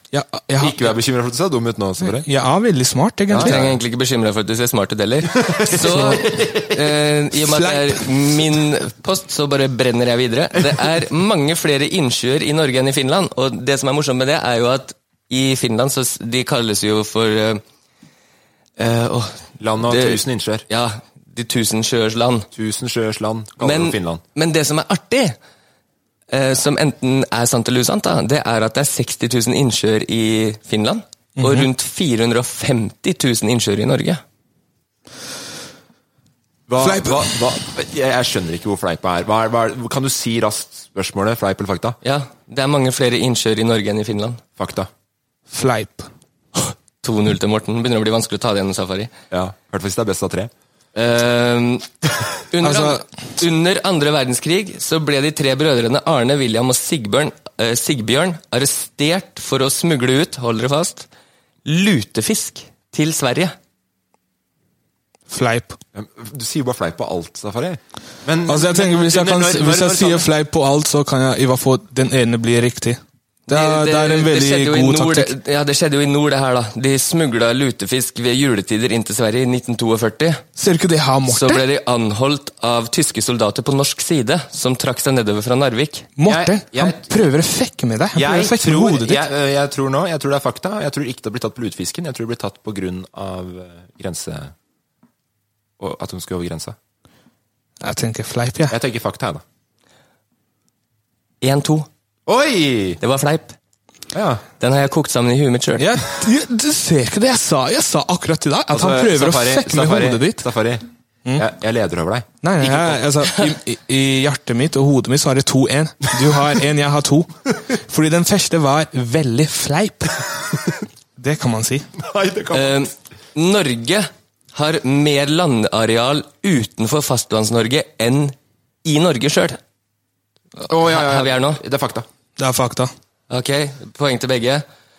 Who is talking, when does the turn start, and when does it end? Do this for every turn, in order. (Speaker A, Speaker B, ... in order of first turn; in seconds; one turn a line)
Speaker A: 0.1-0.9
Speaker B: 0.6-2.3
Speaker A: 2.0-3.6
Speaker B: 3.3-3.8
Speaker C: 3.4-17.6
Speaker B: 5.3-6.9
Speaker A: 7.4-8.1
Speaker C: 18.8-22.5
Speaker B: 19.6-20.6
Speaker B: 22.5-24.2
Speaker C: 23.6-25.4
Speaker C: 26.3-34.2
Speaker A: 31.4-31.7
Speaker B: 36.7-42.0
Speaker A: 36.8-37.4
Speaker C: 42.0-44.4
Speaker B: 44.6-44.9
Speaker A: 45.5-46.1
Speaker C: 46.5-49.1
Speaker B: 49.3-50.5
Speaker C: 50.9-61.1
Speaker A: 52.6-53.0
Speaker C: 61.6-63.5
Speaker A: 65.3-65.8
Speaker B: 65.9-70.3
Speaker A: 68.5-75.3
Speaker C: 73.5-80.4
Speaker A: 80.6-81.6
Speaker C: 81.3-86.1
Speaker A: 86.2-89.2
Speaker B: 86.2-87.2
Speaker B: 88.1-94.5
Speaker B: 95.8-96.8
Speaker A: 97.8-98.8
Speaker B: 98.7-99.4
Speaker C: 101.4-101.9
Speaker B: 102.2-103.0
Speaker C: 103.0-103.5
Speaker B: 104.1-104.4
Speaker C: 104.6-105.8
Speaker A: 105.8-110.5
Speaker B: 108.7-110.8
Speaker B: 111.3-113.0
Speaker A: 112.4-120.2
Speaker A: 121.2-121.9
Speaker B: 122.0-122.8
Speaker C: 122.5-129.6
Speaker B: 130.7-132.1
Speaker C: 130.9-131.6
Speaker A: 132.4-132.9
Speaker C: 133.3-134.6